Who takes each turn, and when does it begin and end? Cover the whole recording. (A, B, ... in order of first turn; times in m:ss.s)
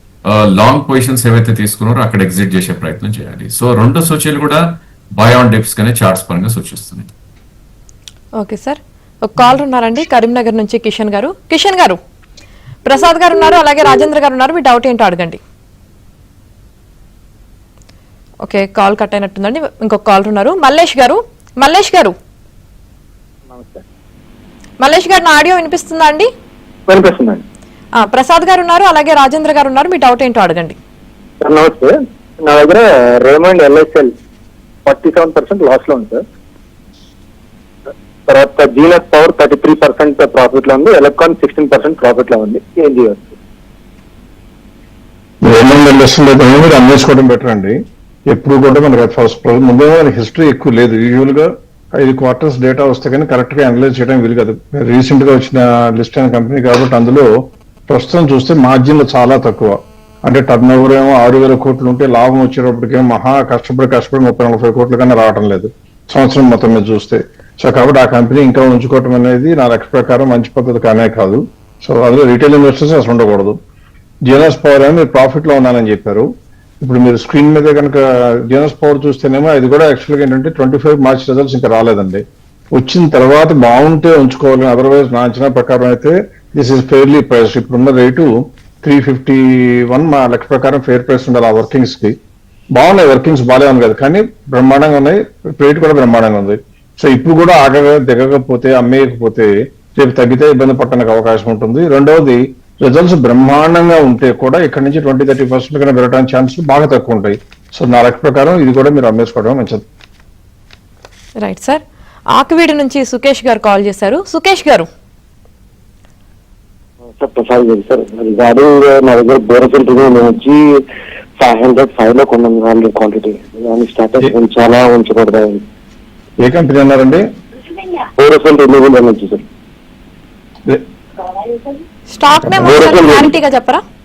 0:00.3-0:04.6 A
0:05.2-0:07.1 A
0:08.4-0:12.0 B
0:12.9-0:15.4 B
0:18.4-0:22.1 B
0:23.5-0:23.8 C
0:24.8-0:26.3 B
0:26.9-0:27.4 C
0:28.0-0:30.8 B
0:31.4-0:34.1 C
0:34.8-0:36.2 C
0:38.3-0:43.3 C
0:45.4-0:47.7 D
0:48.3-0:57.3 D
0:57.9-1:13.6 D
1:14.3-1:16.3 D
1:16.8-1:22.2 D
1:22.7-1:32.1 D
1:32.8-1:49.8 D
1:51.4-1:51.8 B
1:52.4-1:54.9 B
1:57.2-2:00.7 E
2:01.4-2:05.6 E
2:06.4-2:07.2 D
2:08.2-2:09.4 E
2:12.1-2:13.8 B
2:12.4-2:12.7 D
2:12.6-2:13.3 E